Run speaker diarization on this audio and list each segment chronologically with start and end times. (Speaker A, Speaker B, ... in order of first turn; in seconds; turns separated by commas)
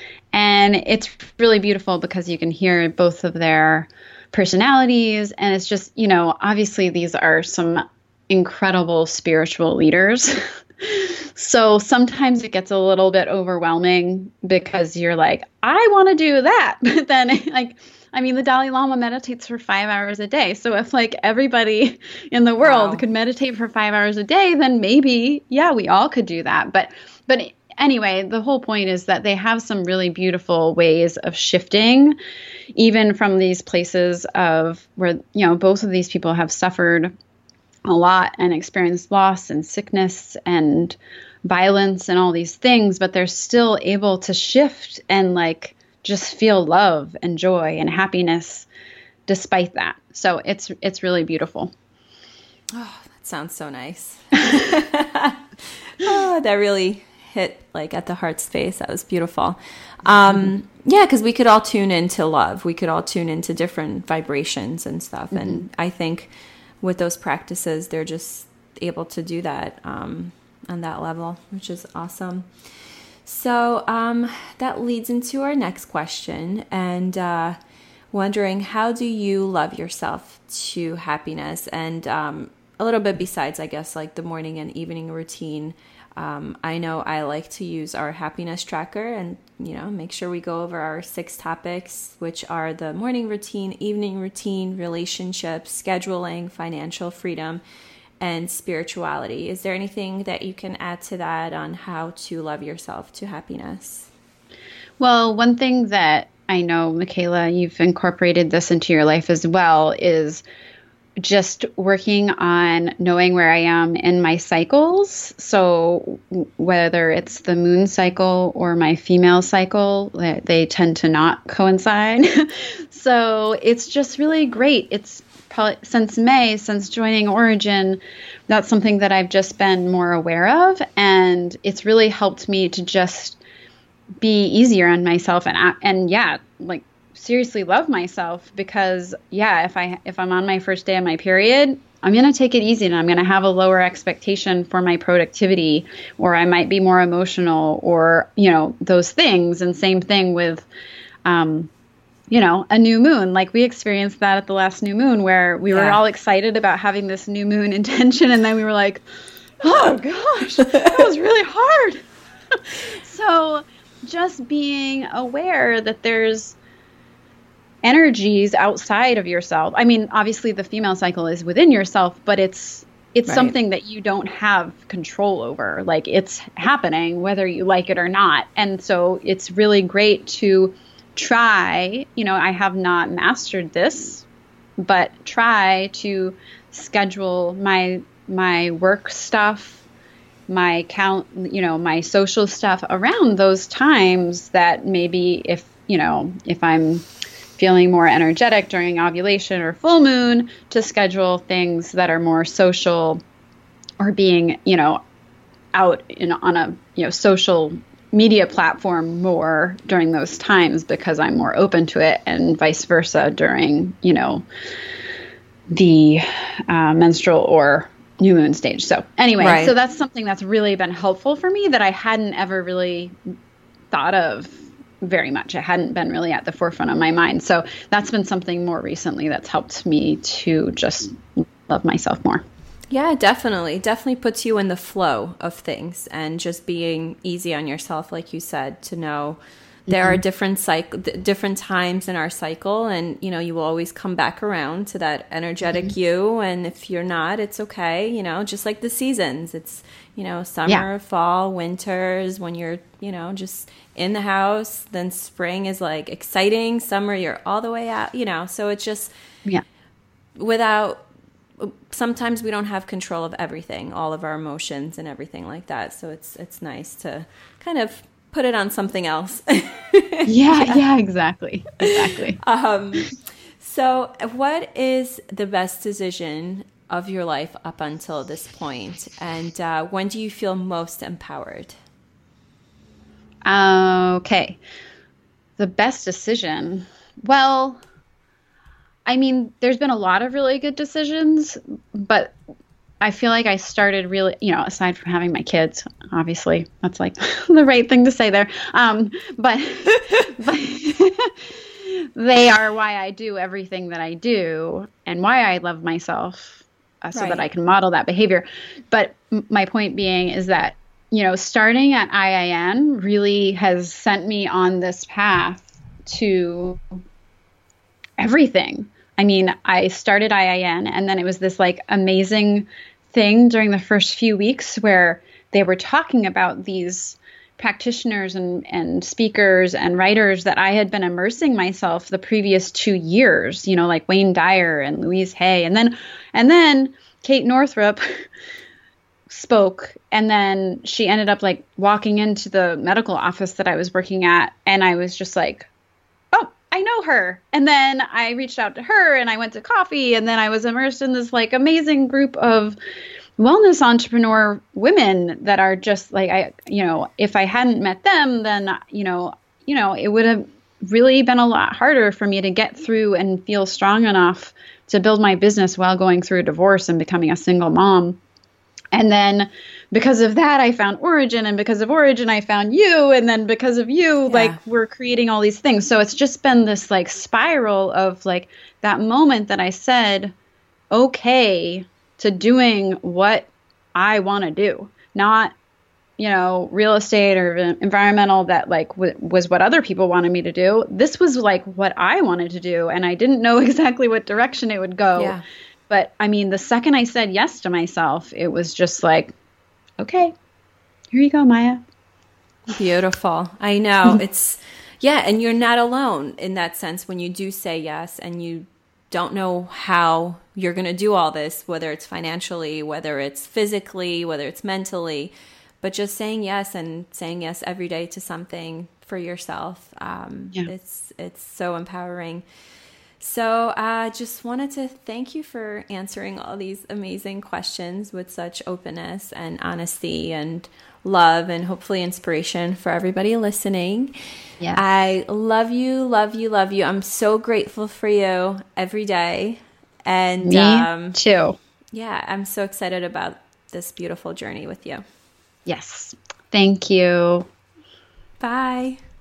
Speaker A: 0.3-32.1, Speaker B: 22.6-23.0, Speaker A: 32.7-37.1, Speaker A: 37.9-48.7, Speaker A: 49.3-51.7, Speaker B: 52.8-72.5, Speaker A: 65.3-65.6, Speaker B: 73.2-77.6, Speaker B: 78.1-97.6, Speaker B: 98.2-104.1, Speaker A: 105.0-110.4, Speaker A: 111.2-133.4, Speaker A: 134.2-150.7, Speaker A: 151.2-151.7, Speaker A: 152.3-159.0, Speaker B: 155.7-156.0, Speaker A: 159.6-162.0, Speaker A: 162.7-166.6, Speaker A: 167.8-184.2, Speaker B: 173.3-173.5, Speaker A: 184.8-189.8, Speaker A: 190.5-197.1, Speaker A: 197.6-203.2, Speaker A: 204.0-205.0, Speaker A: 205.7-214.4, Speaker A: 215.7-223.2, Speaker B: 219.4-219.7, Speaker A: 223.9-232.4, Speaker B: 232.9-259.1, Speaker A: 239.9-240.2, Speaker A: 245.6-245.9, Speaker B: 260.4-261.0, Speaker B: 261.6-270.8, Speaker A: 270.3-272.4, Speaker B: 271.9-273.1, Speaker B: 273.6-281.8, Speaker A: 283.4-284.6, Speaker A: 285.6-287.8, Speaker A: 289.1-292.3, Speaker A: 293.0-316.8, Speaker B: 307.1-307.5, Speaker A: 318.2-338.0, Speaker A: 339.3-345.7, Speaker A: 346.3-352.8, Speaker A: 353.4-368.2, Speaker A: 368.9-380.3, Speaker B: 374.3-374.6, Speaker A: 380.9-385.5, Speaker A: 386.2-395.4, Speaker B: 395.1-395.4, Speaker A: 395.9-399.3, Speaker A: 400.0-400.3, Speaker A: 401.1-401.8, Speaker B: 402.8-422.4, Speaker B: 423.2-434.1, Speaker A: 434.6-434.8, Speaker B: 434.7-441.1, Speaker A: 440.4-441.6, Speaker B: 441.9-445.0, Speaker A: 445.7-447.5, Speaker B: 448.4-449.0